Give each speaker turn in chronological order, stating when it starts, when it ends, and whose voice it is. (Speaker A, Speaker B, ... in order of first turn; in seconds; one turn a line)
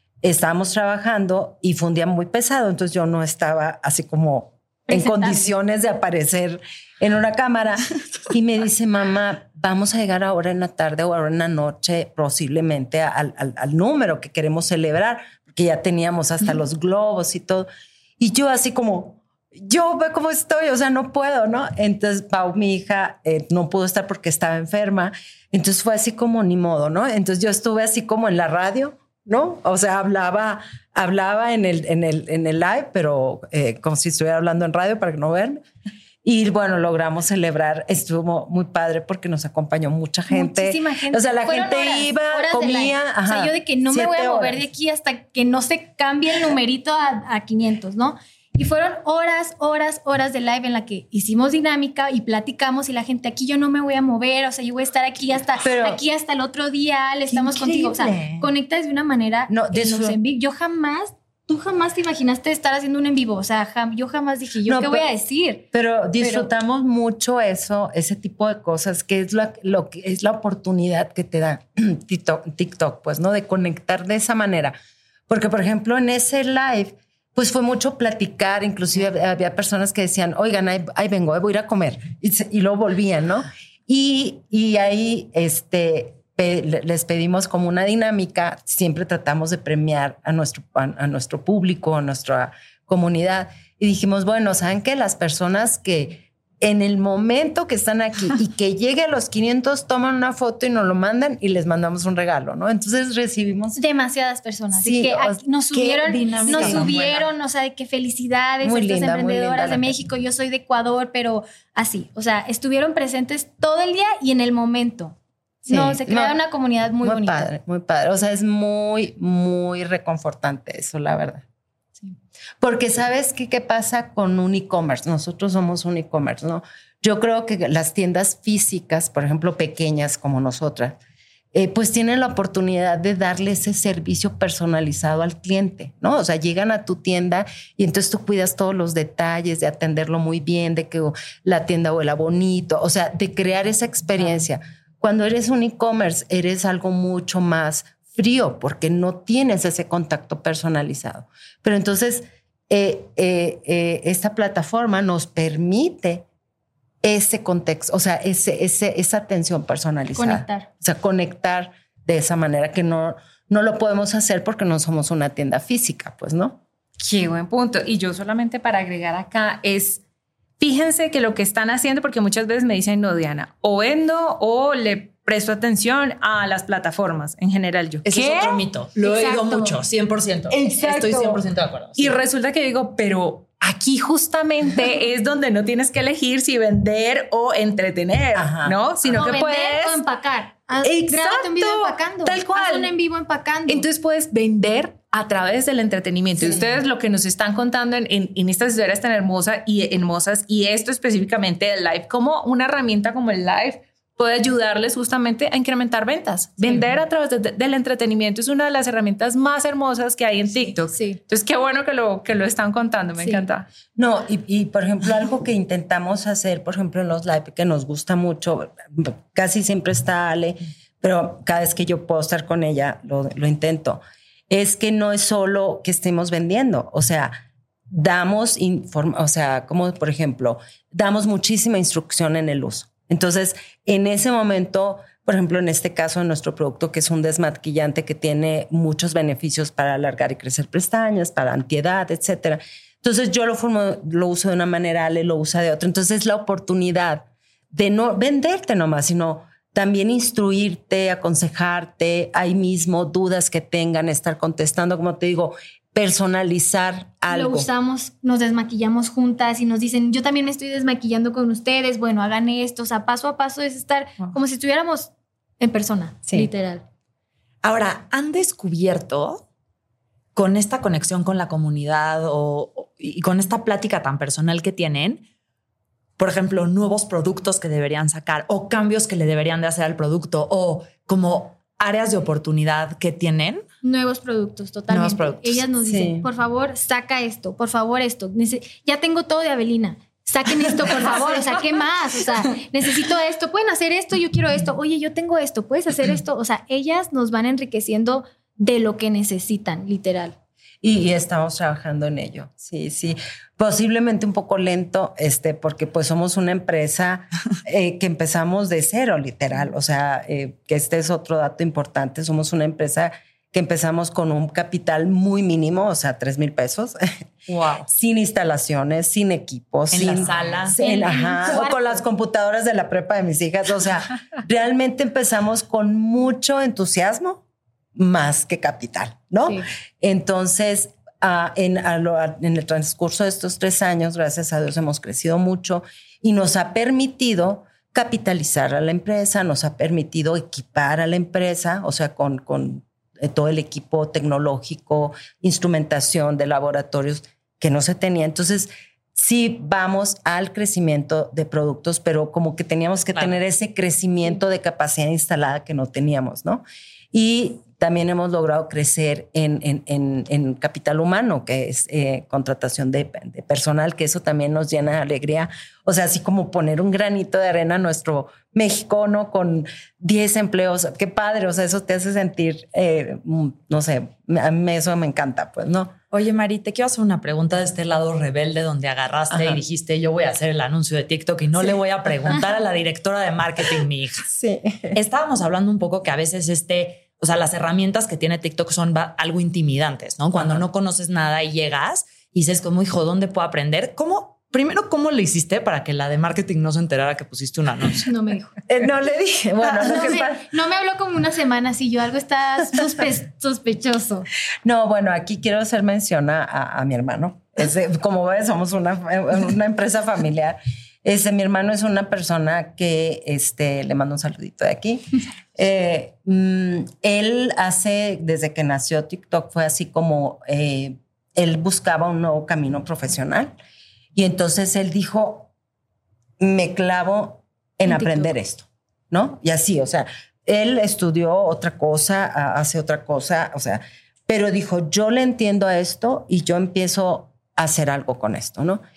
Speaker A: 0.2-17.7
Speaker B: 4.9-5.5
Speaker A: 18.2-35.6
Speaker A: 36.2-44.6
Speaker B: 40.3-65.6
Speaker A: 55.6-56.0
Speaker A: 57.3-58.5
Speaker A: 59.5-60.2
Speaker A: 64.6-65.0
Speaker A: 65.7-74.8
Speaker B: 66.2-66.5
Speaker A: 75.3-103.8
Speaker B: 103.8-117.5
Speaker A: 104.7-107.0
Speaker C: 106.1-107.3
Speaker A: 108.6-109.9
Speaker A: 115.7-116.4
Speaker A: 117.0-121.4
Speaker A: 122.6-131.0
Speaker A: 131.5-156.2
Speaker A: 157.0-166.6
Speaker B: 160.1-160.7
Speaker D: 167.0-170.0
Speaker D: 170.6-178.6
Speaker C: 178.0-182.2
Speaker B: 179.0-179.8
Speaker D: 180.5-181.4
Speaker D: 181.9-190.0
Speaker A: 188.3-188.7
Speaker B: 189.1-193.9
Speaker D: 190.8-192.9
Speaker D: 193.7-213.7
Speaker B: 213.2-213.4
Speaker A: 213.9-227.3
Speaker A: 227.9-257.7
Speaker B: 257.3-266.8
Speaker C: 267.6-269.4
Speaker C: 270.3-275.2
Speaker C: 276.2-283.6
Speaker B: 283.8-300.3
Speaker C: 284.9-285.6
Speaker A: 285.8-286.3
Speaker A: 300.8-317.1
Speaker C: 317.5-317.9
Speaker A: 317.9-327.4
Speaker C: 319.9-320.8
Speaker B: 320.8-322.0
Speaker A: 327.9-375.9
Speaker C: 376.1-384.3
Speaker A: 379.3-379.6
Speaker A: 384.3-384.9
Speaker C: 384.9-398.1
Speaker B: 398.1-398.6
Speaker A: 398.7-400.4
Speaker B: 399.8-404.3
Speaker A: 404.6-423.5
Speaker A: 424.1-425.5
Speaker A: 426.4-438.8
Speaker B: 427.9-428.3